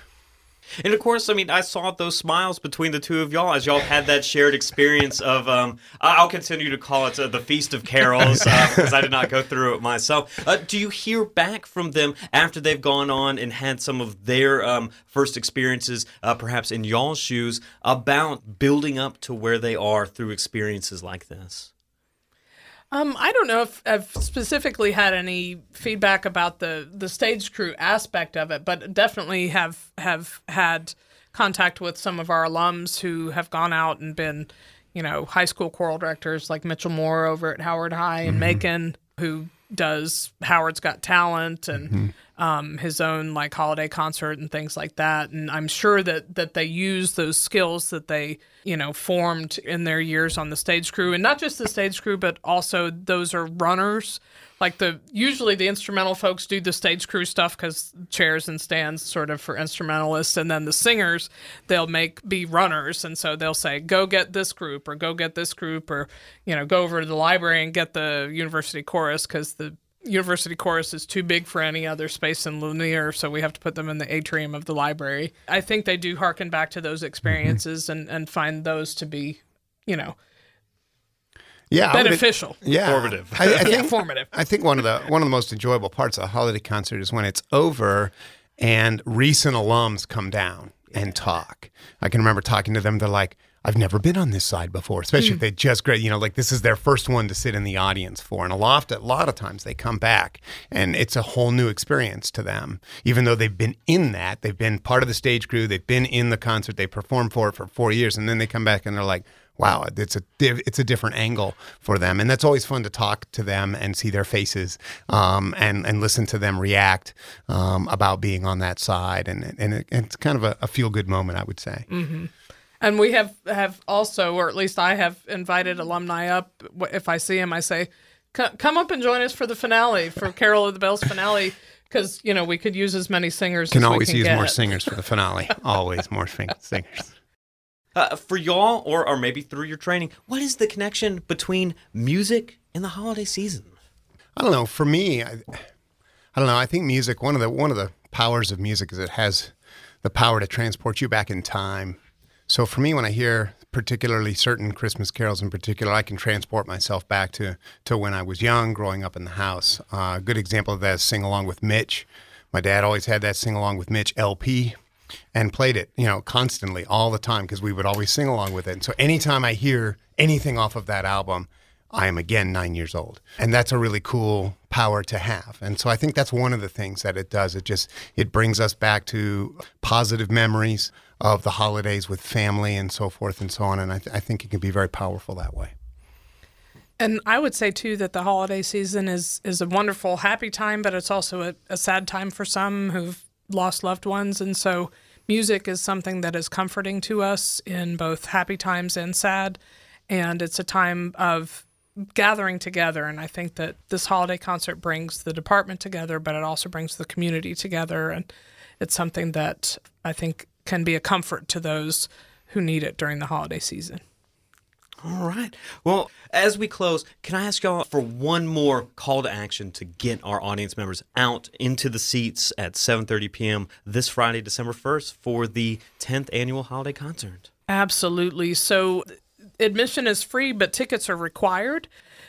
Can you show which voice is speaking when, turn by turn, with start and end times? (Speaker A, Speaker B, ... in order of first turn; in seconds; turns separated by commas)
Speaker A: 0.8-21.7, Speaker B: 22.9-80.2, Speaker C: 38.3-38.6, Speaker C: 81.7-121.8, Speaker B: 81.9-82.6, Speaker A: 82.8-83.7, Speaker B: 83.4-84.3, Speaker B: 121.9-122.3, Speaker B: 122.8-134.9, Speaker C: 133.7-137.1, Speaker A: 137.9-143.7, Speaker C: 144.3-145.6, Speaker C: 146.3-164.8, Speaker C: 165.3-185.7, Speaker B: 187.0-199.6, Speaker B: 200.1-208.3, Speaker B: 208.8-214.0, Speaker A: 215.0-227.5, Speaker B: 227.7-231.9